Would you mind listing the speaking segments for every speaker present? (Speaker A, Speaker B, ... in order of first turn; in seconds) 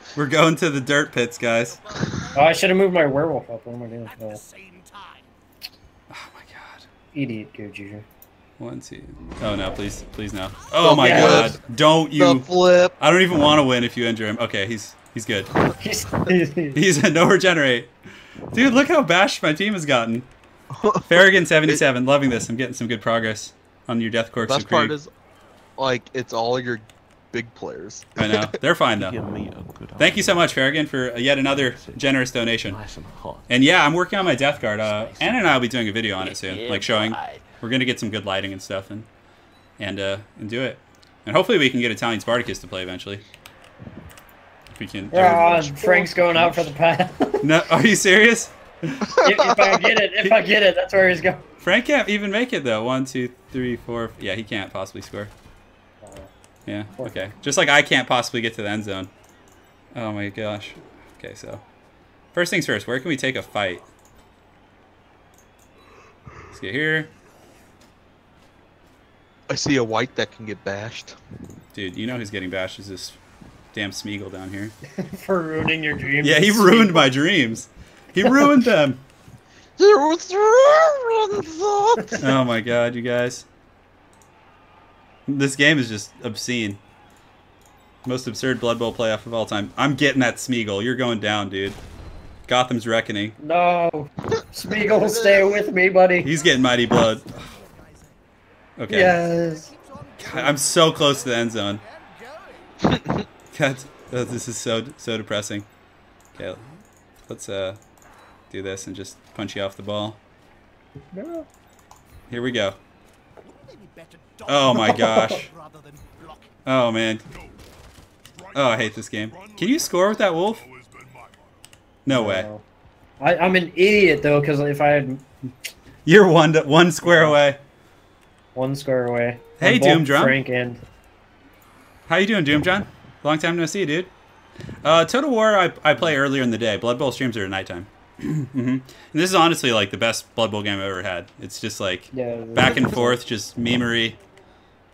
Speaker A: 0.2-1.8, 6.1-6.8, 8.6-12.5, 13.0-15.5, 16.7-17.9, 18.5-20.3, 21.1-25.0, 28.2-29.2, 30.0-32.8, 33.5-39.1, 39.8-43.2, 44.8-45.5, 47.4-49.2, 51.6-55.3, 56.7-59.1, 59.9-61.6, 62.3-63.9, 66.5-67.1, 71.7-73.2, 73.7-74.8, 76.2-79.0, 82.2-83.5, 85.3-86.8, 88.0-91.8, 92.5-93.4, 96.2-97.5, 98.8-99.2, 100.2-101.8, 103.5-105.7, 106.4-106.6, 107.3-107.8, 108.5-110.2, 112.3-112.8, 114.5-115.5, 116.7-117.2, 118.5-120.7, 122.0-122.5, 126.1-127.6, 129.6-130.4, 132.1-134.1, 134.8-144.2
Speaker B: 1.7-2.7, 4.1-5.3, 96.4-98.2, 99.0-102.9, 113.5-116.5
Speaker C: 2.3-4.4, 7.1-8.1, 10.9-11.6, 15.8-16.8, 45.1-47.5, 49.2-51.4, 56.0-56.3, 57.0-57.2, 75.0-77.1, 78.2-78.5, 93.4-96.3, 98.9-99.7, 111.1-111.5, 114.7-115.3, 122.1-122.6, 123.2-125.2, 127.0-127.4, 128.6-130.8, 142.1-143.2
Speaker D: 10.8-11.6, 12.2-13.0, 20.7-21.8, 24.5-25.1, 25.8-28.6, 49.2-49.8, 69.5-71.2, 79.8-82.2, 94.8-95.6
Speaker E: 29.0-30.5, 31.6-32.0, 32.6-33.5, 34.6-35.6, 36.2-37.5, 45.4-46.7